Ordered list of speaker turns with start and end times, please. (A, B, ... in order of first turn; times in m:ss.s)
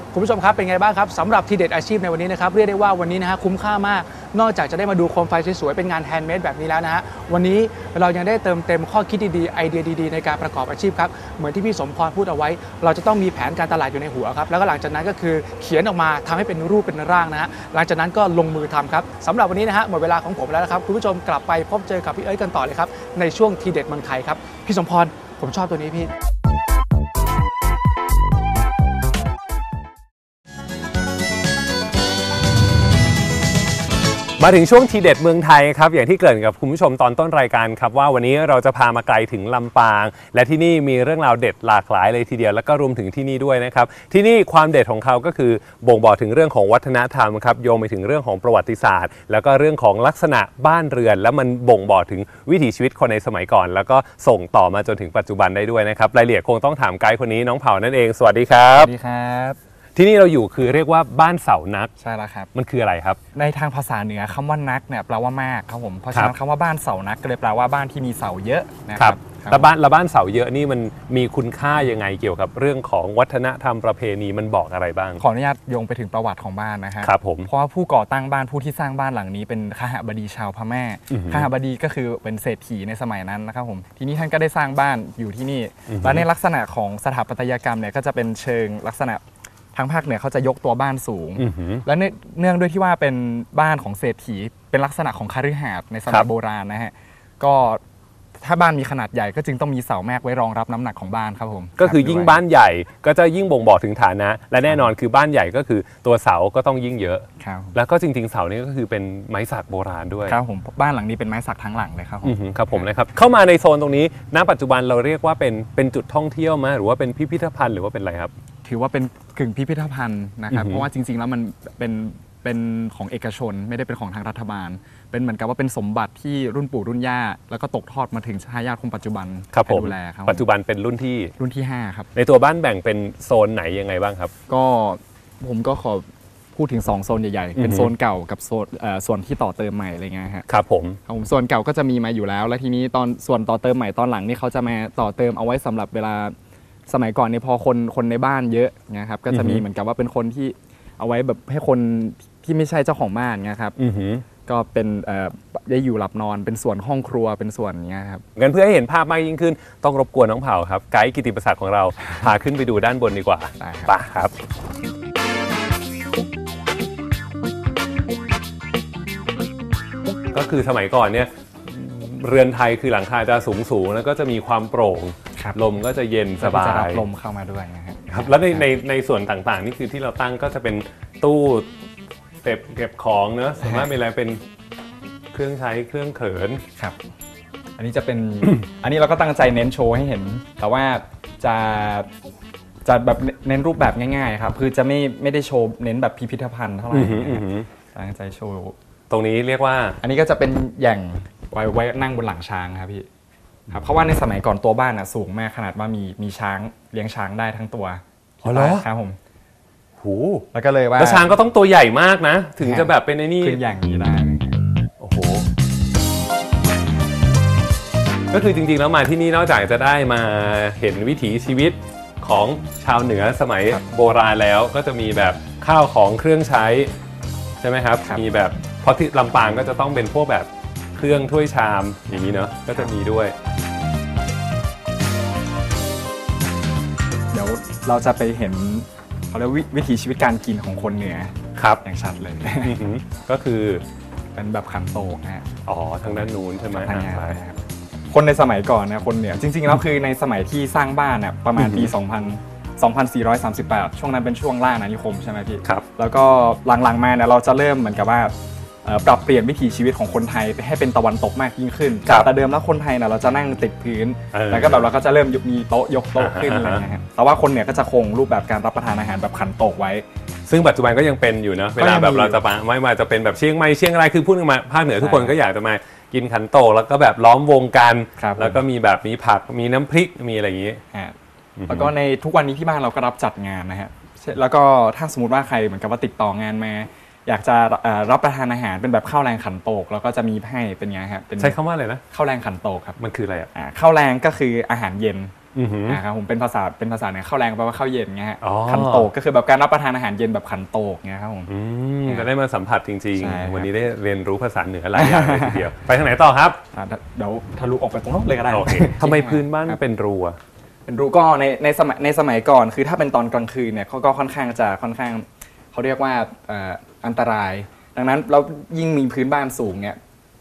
0:00.1-0:26.1 A
0:34.4-0:58.9 B
0:58.8-0:59.6 C
0:59.9-1:01.9 B
1:02.0-1:02.5 C
1:02.5-1:03.2 B
1:03.3-1:09.7 C
1:09.0-1:15.2 B
1:15.2-1:29.2 C
1:17.0-1:17.5 B
1:21.1-1:21.5 B
1:25.9-1:26.3 B
1:29.8-1:37.8 C
1:31.4-1:31.8 B
1:38.4-1:42.4 C
1:41.8-1:50.4 B
1:47.4-1:47.8 C
1:50.2-1:52.8 C
1:52.2-1:58.3 B
1:58.6-2:10.5 C
2:00.5-2:00.9 B
2:09.5-2:11.3 B
2:11.4-2:12.1 C
2:12.1-2:14.3 B
2:14.5-2:20.4 C
2:17.6-2:17.9 B
2:20.5-2:21.0 B
2:21.1-2:26.3 C
2:26.9-2:33.8 C
2:29.3-2:29.6 B
2:33.8-2:34.2 B
2:34.4-2:38.2 C
2:38.4-2:44.3 B
2:43.6-2:44.0 C
2:50.3-2:57.0 B
2:56.4-2:58.6 C
2:58.1-3:01.7 B
3:02.4-3:04.4 B
3:03.6-3:03.9 C
3:05.3-3:06.6 B
3:07.8-3:12.1 C
3:12.8-3:18.8 C
3:16.9-3:17.7 B
3:19.1-3:20.0 B
3:20.0-3:23.1 C
3:23.7-3:29.2 C
3:28.4-3:28.8 B
3:30.0-3:30.4 B
3:30.5-3:31.4 C
3:31.0-3:33.6 B
3:32.6-3:34.6 C
3:35.0-3:35.4 B
3:38.3-3:46.9 B
3:47.6-3:53.3 B
3:57.3-4:02.8 C
4:01.6-4:01.8 B
4:02.6-4:03.8 B
4:04.3-4:05.5 C
4:05.7-4:07.4 B
4:06.0-4:07.6 C
4:08.1-4:18.3 C
4:11.6-4:11.9 B
4:18.8-4:30.0 C
4:24.3-4:24.9 B
4:26.2-4:26.8 B
4:30.5-4:40.8 B
4:31.8-4:32.4 C
4:35.0-4:35.3 C
4:38.2-4:38.6 C
4:41.6-4:41.9 B
4:41.7-4:51.6 C
4:51.4-4:52.0 B
4:52.1-4:53.0 C
4:53.0-4:53.5 B
4:53.5-4:55.3 C
4:55.5-4:56.0 B
4:55.8-5:01.5 C
4:58.4-4:59.1 B
5:01.5-5:06.6 B
5:03.2-5:03.7 C
5:04.9-5:05.7 C
5:06.7-5:09.8 C
5:08.5-5:10.4 B
5:10.8-5:20.0 C